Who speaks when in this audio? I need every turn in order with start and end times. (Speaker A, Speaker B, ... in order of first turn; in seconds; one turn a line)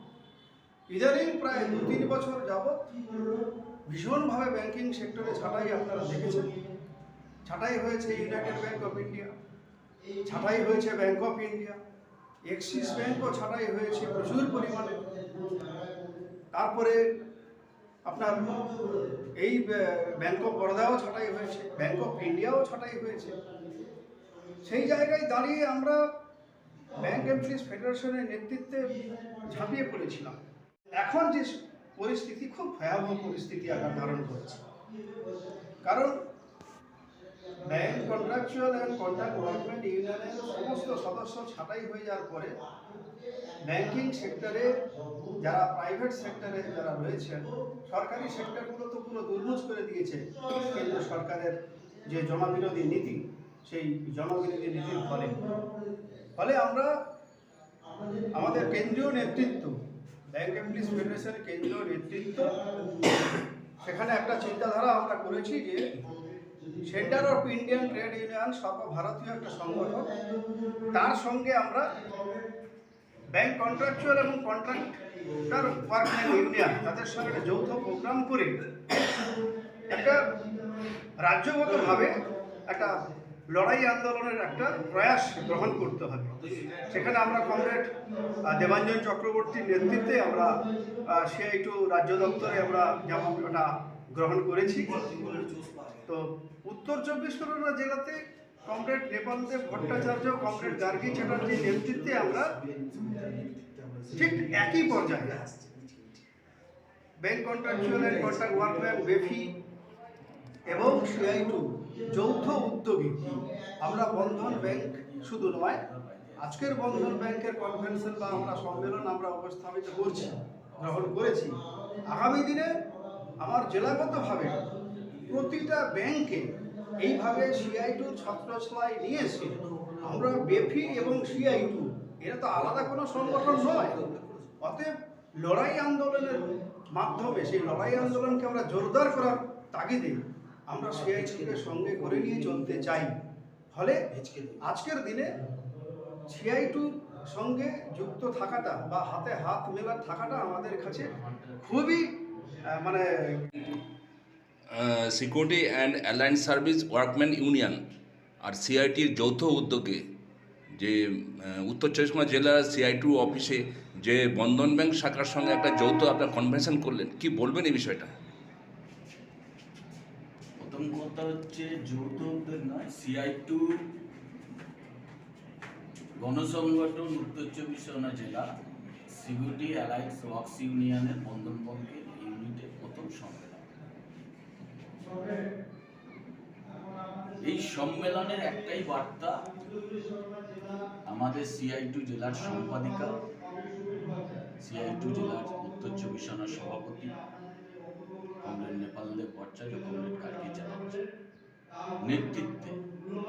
Speaker A: 0.9-2.8
Speaker A: 3.9-6.5
Speaker A: 7.5-9.3
Speaker A: 10.3-11.8
Speaker A: 12.5-15.2
Speaker A: 16.5-17.0
Speaker A: 18.1-18.7
Speaker A: 19.4-23.4
Speaker A: 24.6-26.0
Speaker A: 27.0-30.4
Speaker A: 31.0-34.6
Speaker A: 35.8-36.1
Speaker A: 37.6-42.5
Speaker A: 43.7-44.7
Speaker A: 45.4-55.4
Speaker A: 56.4-56.9
Speaker A: 58.4-59.7
Speaker A: 60.3-62.6
Speaker A: 63.8-65.8
Speaker A: 66.9-70.1
Speaker A: 70.9-72.0
Speaker A: 73.4-79.1
Speaker A: 79.9-80.3
Speaker A: 81.2-83.0
Speaker A: 83.5-86.4
Speaker B: 86.4-87.5
Speaker A: 86.9-95.3
Speaker A: 96.1-102.6
Speaker A: 104.1-105.4
Speaker A: 107.2-109.5
Speaker A: 110.7-115.8
Speaker B: 114.2-116.4
Speaker A: 116.4-122.7
Speaker B: 118.2-118.9
Speaker A: 123.4-124.6
Speaker A: 125.3-134.1
Speaker B: 134.0-134.5
Speaker A: 134.6-143.2
Speaker A: 143.7-144.0
Speaker B: 144.2-144.6
Speaker A: 144.6-145.3
Speaker A: 146.3-152.1
Speaker A: 152.8-153.4
Speaker C: 154.7-157.8
Speaker C: 158.4-160.0
Speaker C: 160.8-168.1
Speaker B: 170.6-173.7
Speaker B: 176.2-178.5
Speaker B: 179.1-183.7
Speaker B: 187.4-189.5
Speaker B: 191.1-193.2
Speaker B: 194.6-197.2
Speaker B: 198.4-200.9
Speaker B: 202.0-202.8